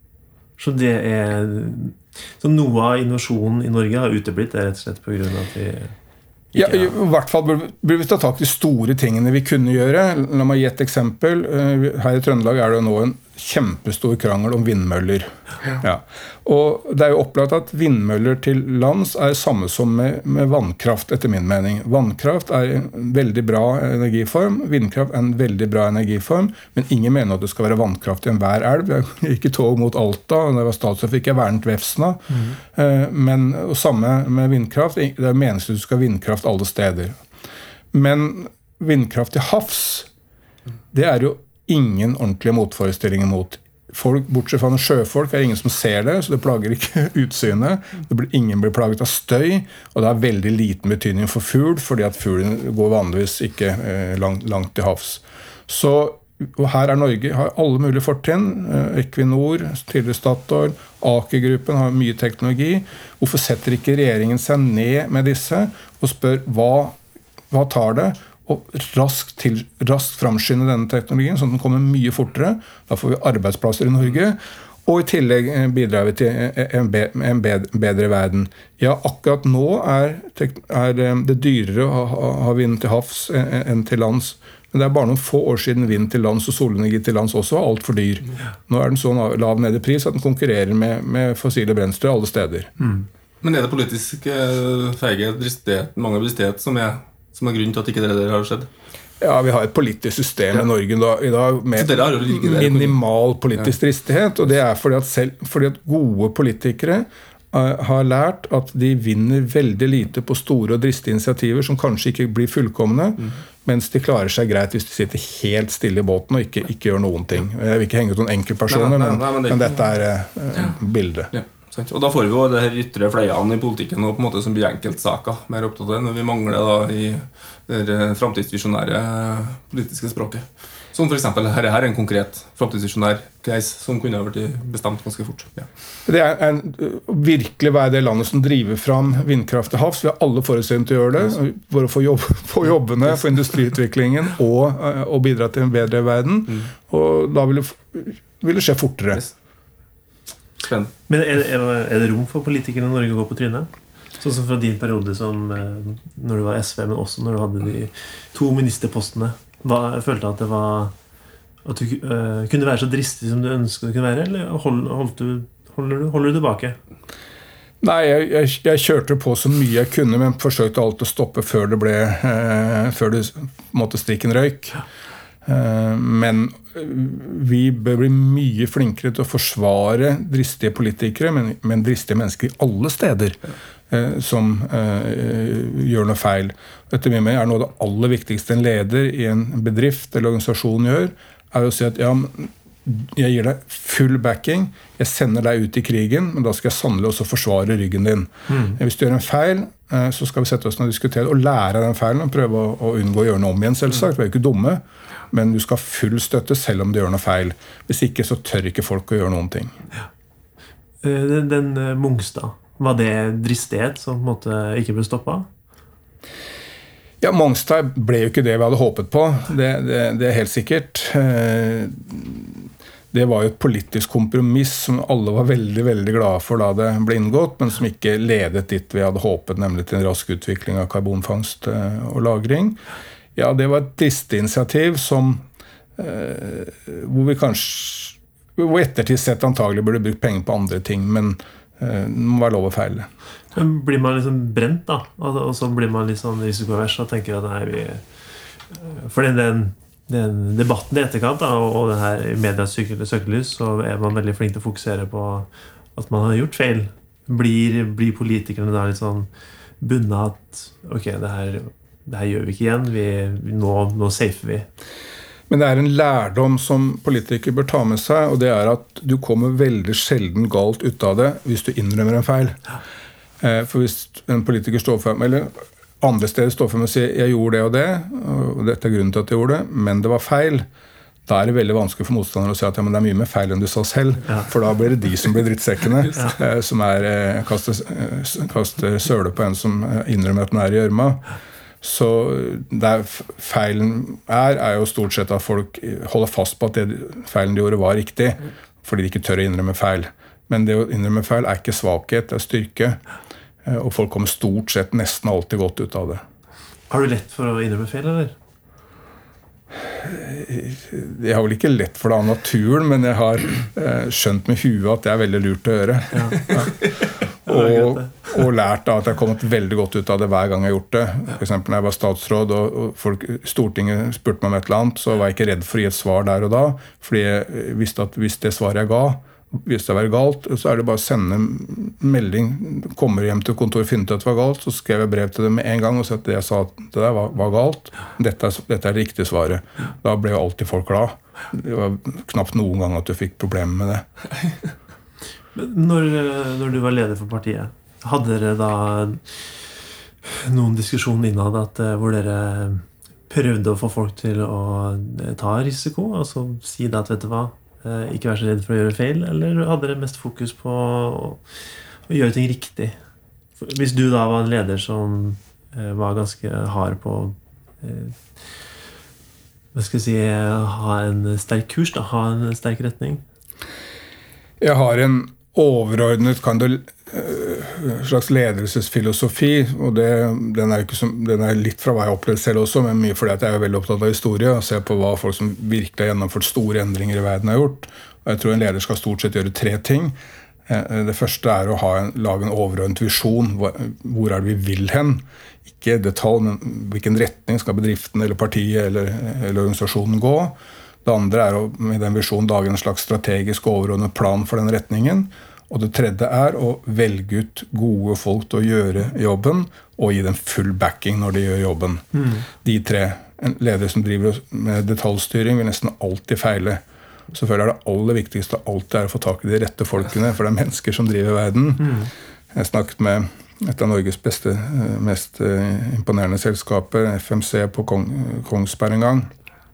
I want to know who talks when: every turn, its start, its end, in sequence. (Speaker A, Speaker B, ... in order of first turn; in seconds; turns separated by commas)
Speaker A: 0.6-5.9, Speaker A: 6.5-6.9, Speaker B: 6.5-37.2, Speaker A: 32.3-32.6, Speaker B: 37.9-40.1, Speaker B: 40.9-67.0, Speaker B: 67.5-92.7, Speaker C: 93.4-98.7, Speaker B: 99.2-121.3, Speaker C: 101.7-103.0, Speaker C: 118.7-119.9, Speaker C: 121.3-135.7, Speaker B: 136.1-149.2, Speaker C: 150.6-150.9, Speaker A: 151.1-160.9, Speaker A: 161.6-166.8, Speaker B: 167.8-174.8, Speaker B: 175.4-183.4, Speaker B: 183.9-209.7, Speaker A: 198.5-198.8, Speaker A: 211.0-215.5, Speaker B: 217.2-232.8, Speaker B: 233.3-235.4, Speaker B: 236.0-243.1, Speaker A: 243.5-248.0, Speaker A: 248.7-259.3, Speaker A: 259.8-264.7, Speaker B: 265.5-272.6, Speaker B: 273.4-280.7, Speaker B: 281.2-291.2, Speaker B: 291.8-303.0, Speaker B: 303.6-306.2, Speaker A: 306.9-308.3, Speaker B: 309.8-316.8, Speaker A: 316.1-316.5, Speaker B: 317.4-344.0, Speaker A: 317.5-318.1, Speaker A: 345.5-349.4, Speaker A: 350.2-361.4, Speaker A: 362.1-363.0, Speaker A: 363.6-368.2, Speaker A: 369.7-373.2, Speaker B: 374.6-416.8, Speaker A: 412.1-412.4, Speaker B: 417.3-429.3, Speaker A: 421.8-422.1